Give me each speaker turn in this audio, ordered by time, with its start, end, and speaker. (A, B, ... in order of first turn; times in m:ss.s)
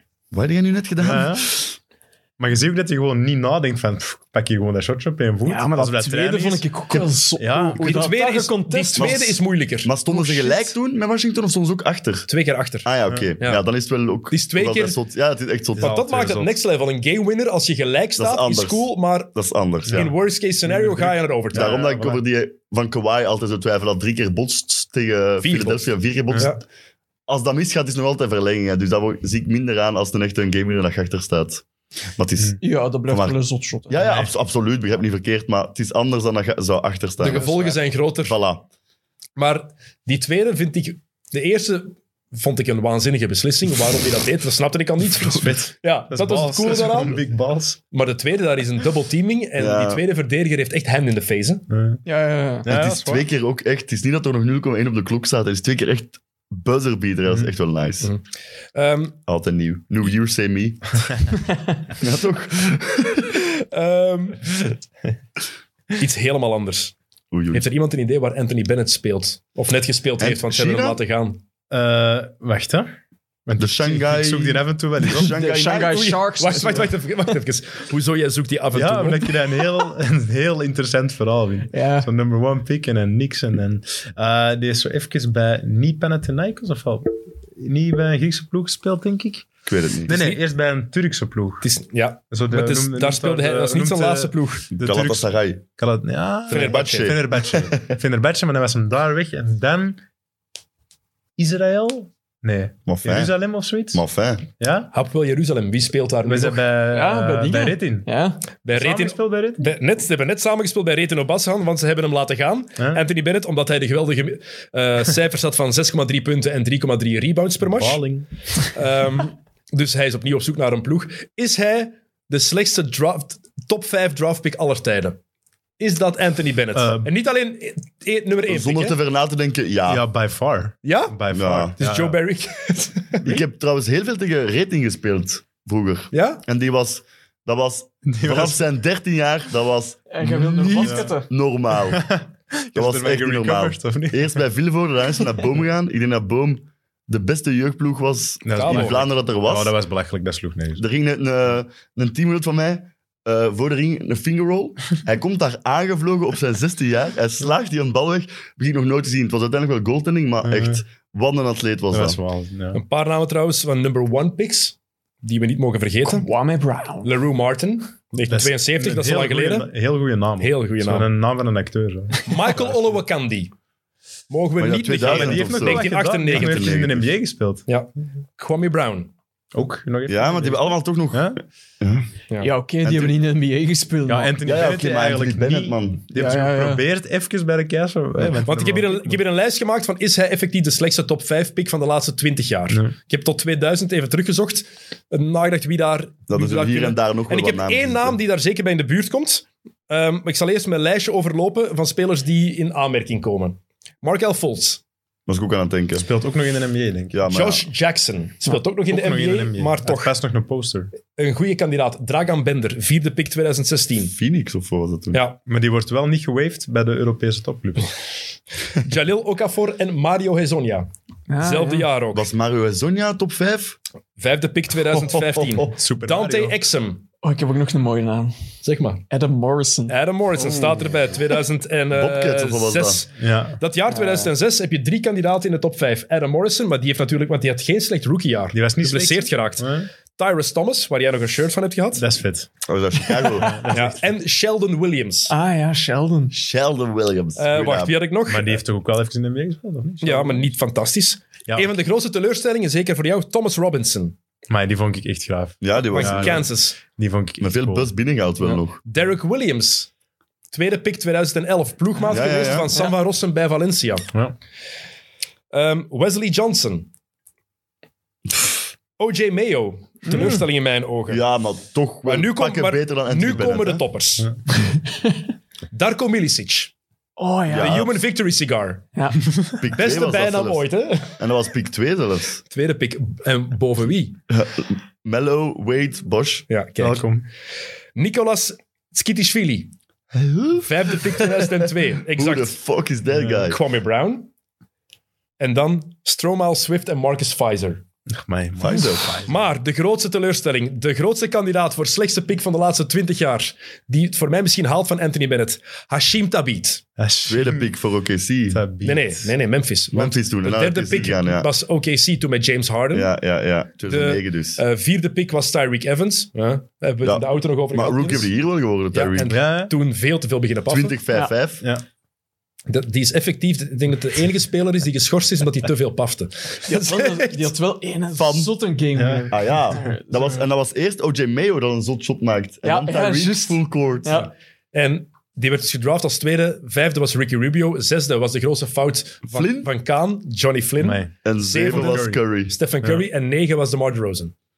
0:00.3-0:01.8 A
0:01.0-0:01.5 B
0:02.4-0:06.7 B
0:05.4-0:09.2 C
0:07.4-0:07.8 B
0:07.8-0:10.6 D
0:09.0-0:12.3 A
0:12.3-0:13.6 D
0:12.8-0:15.9 A
0:14.3-0:15.0 D
0:15.8-0:16.6 B
0:15.8-0:19.3 D
0:18.2-0:20.1 A
0:19.9-0:21.8 D
0:20.7-0:22.2 B
0:21.5-0:26.6 A
0:25.4-0:25.8 D
0:26.4-0:26.6 D
0:27.3-0:31.6 A
0:32.2-0:38.6 A
0:32.6-0:34.0 C
0:34.0-0:34.3 B
0:37.2-0:38.4 D
0:39.4-0:47.2 D
0:45.1-0:47.8 B
0:47.9-0:51.6 D
0:49.6-0:50.0 A
0:51.7-0:52.0 B
0:52.0-0:52.7 C
0:52.6-0:53.3 B
0:52.7-0:58.1 A
0:58.8-0:59.2 D
0:59.3-1:01.0 A
1:02.0-1:03.3 A
1:03.7-1:04.4 D
1:06.0-1:07.0 D
1:07.3-1:07.6 A
1:07.5-1:11.4 D
1:10.2-1:11.0 A
1:11.7-1:12.9 B
1:13.4-1:15.6 B
1:13.6-1:16.2 A
1:15.1-1:17.0 C
1:15.9-1:19.3 D
1:18.7-1:29.5 B
1:21.7-1:22.1 C
1:29.7-1:30.4 A
1:30.0-1:31.6 B
1:31.6-1:34.7 D
1:32.3-1:40.0 B
1:34.7-1:35.6 A
1:36.5-1:37.8 A
1:36.5-1:37.1 D
1:41.4-1:44.0 B
1:42.9-1:43.3 A
1:43.9-1:44.4 A
1:44.6-1:44.9 B
1:44.9-1:46.6 D
1:46.2-1:48.1 B
1:46.9-1:48.4 C
1:48.6-1:58.0 D
1:48.7-1:49.7 B
1:57.6-1:58.5 B
1:58.7-2:05.2 D
2:05.8-2:09.0 D
2:06.7-2:07.1 B
2:08.5-2:10.0 A
2:09.9-2:12.2 B
2:10.8-2:11.2 D
2:11.3-2:11.8 A
2:11.8-2:13.3 D
2:13.2-2:22.0 A
2:16.1-2:16.4 D
2:18.0-2:18.6 B
2:20.1-2:21.3 C
2:20.2-2:21.1 B
2:21.9-2:24.4 B
2:22.8-2:29.7 A
2:28.4-2:30.8 B
2:28.5-2:29.0 D
2:30.8-2:42.2 A
2:40.4-2:40.8 B
2:41.9-2:42.8 B
2:42.7-2:46.3 D
2:46.0-2:47.1 C
2:47.0-2:49.7 D
2:48.3-2:52.7 B
2:50.4-2:51.1 D
2:52.2-2:53.5 D
2:54.3-2:56.8 D
2:54.6-2:57.1 A
2:55.0-2:57.7 B
2:57.7-2:59.1 D
2:59.5-3:01.4 B
3:00.1-3:02.0 A
3:02.4-3:04.4 C
3:02.8-3:03.1 A
3:04.0-3:09.2 B
3:04.4-3:06.0 A
3:06.1-3:06.8 C
3:08.4-3:24.8 D
3:16.3-3:18.2 A
3:25.3-3:26.1 A
3:26.0-3:27.2 B
3:27.1-3:27.7 A
3:27.3-3:30.1 D
3:28.9-3:30.9 B
3:31.2-3:34.1 D
3:34.1-3:35.2 A
3:35.1-3:35.4 D
3:35.4-3:37.9 B
3:38.8-3:40.9 D
3:41.3-3:41.9 C
3:41.4-3:42.3 D
3:42.1-3:43.8 A
3:44.2-3:47.0 D
3:45.6-3:46.6 B
3:47.2-3:48.4 C
3:48.6-3:49.0 D
3:49.1-3:51.0 C
3:49.9-4:02.0 D
3:51.9-3:53.0 A
3:53.2-3:53.6 B
3:53.9-3:54.3 C
3:58.5-3:59.9 B
4:02.0-4:02.5 B
4:02.7-4:03.7 A
4:03.2-4:04.1 B
4:03.7-4:05.3 D
4:05.3-4:06.3 C
4:06.3-4:08.0 A
4:07.4-4:08.6 D
4:08.3-4:10.5 B
4:10.0-4:14.2 D
4:14.5-4:17.9 B
4:15.6-4:16.4 A
4:15.9-4:16.8 D
4:17.4-4:18.8 A
4:18.8-4:19.9 D
4:20.5-4:24.1 D
4:22.1-4:22.7 A
4:25.5-4:26.9 D
4:29.0-4:31.2 D
4:30.1-4:30.4 B
4:31.1-4:33.8 A
4:32.0-4:34.3 D
4:35.7-4:36.7 D
4:37.2-4:37.8 C
4:37.5-4:37.9 A
4:37.6-4:38.9 D
4:39.0-4:39.2 C
4:39.6-4:42.4 A
4:39.7-4:41.2 D
4:42.5-4:44.2 D
4:44.3-4:46.4 A
4:46.5-4:47.1 D
4:46.8-4:47.2 B
4:48.0-4:49.7 D
4:50.1-4:51.5 A
4:50.6-4:52.6 D
4:52.2-4:53.6 A
4:53.1-4:53.5 B
4:53.4-4:54.3 D
4:55.4-4:57.8 D
4:58.1-4:59.4 B
4:58.6-4:59.2 A
4:59.2-5:06.8 D
5:07.0-5:07.7 B
5:07.3-5:08.6 A
5:08.5-5:09.3 B
5:08.8-5:13.1 D
5:09.9-5:11.5 A
5:12.9-5:14.6 A
5:13.9-5:18.3 D
5:17.0-5:19.3 A
5:18.9-5:21.0 D
5:19.2-5:19.7 B
5:20.7-5:21.6 A
5:22.7-5:27.5 D
5:26.7-5:30.5 C
5:28.2-5:28.5 A
5:29.0-5:29.8 B
5:29.3-5:34.3 A
5:32.6-5:34.3 C
5:34.1-5:44.3 D
5:39.3-5:39.7 A
5:40.8-5:42.2 B
5:41.2-5:42.5 A